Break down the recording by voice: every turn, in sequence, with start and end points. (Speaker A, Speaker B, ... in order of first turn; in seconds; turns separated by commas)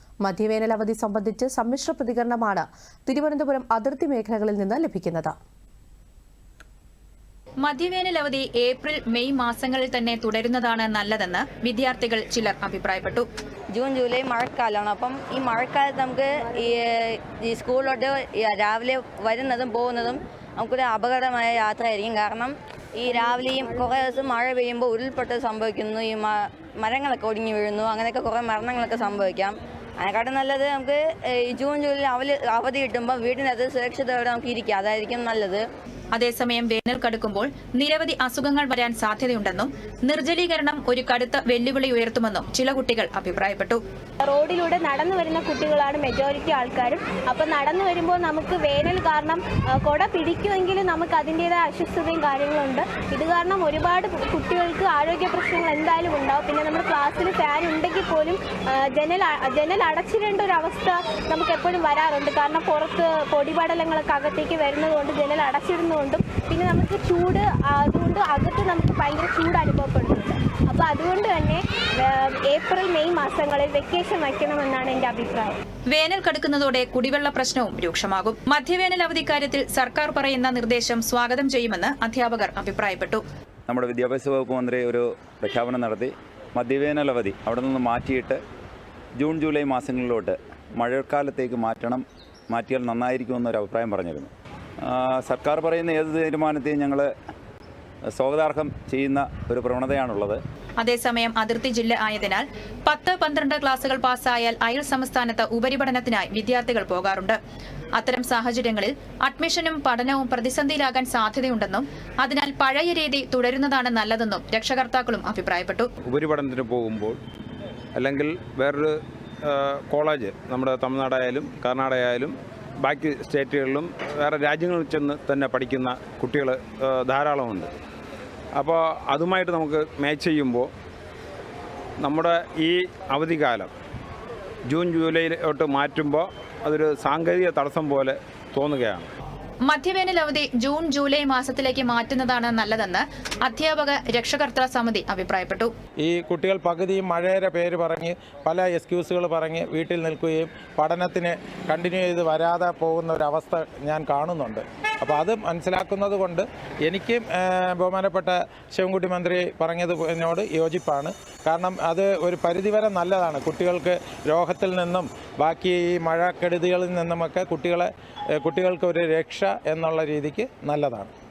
Speaker A: 0.2-5.3, Speaker B: 7.6-13.2, Speaker C: 13.7-35.7, Speaker B: 36.1-43.8, Speaker D: 44.2-75.6, Speaker B: 75.9-83.2, Speaker E: 83.7-88.4, Speaker E: 89.2-94.3, Speaker E: 94.8-97.1, Speaker E: 98.1-100.4, Speaker B: 100.8-107.4, Speaker B: 108.0-115.9, Speaker F: 116.0-117.2, Speaker F: 118.0-127.7, Speaker F: 128.6-130.7, Speaker F: 132.0-133.7, Speaker F: 134.7-139.1, Speaker B: 139.7-145.7, Speaker G: 146.0-171.1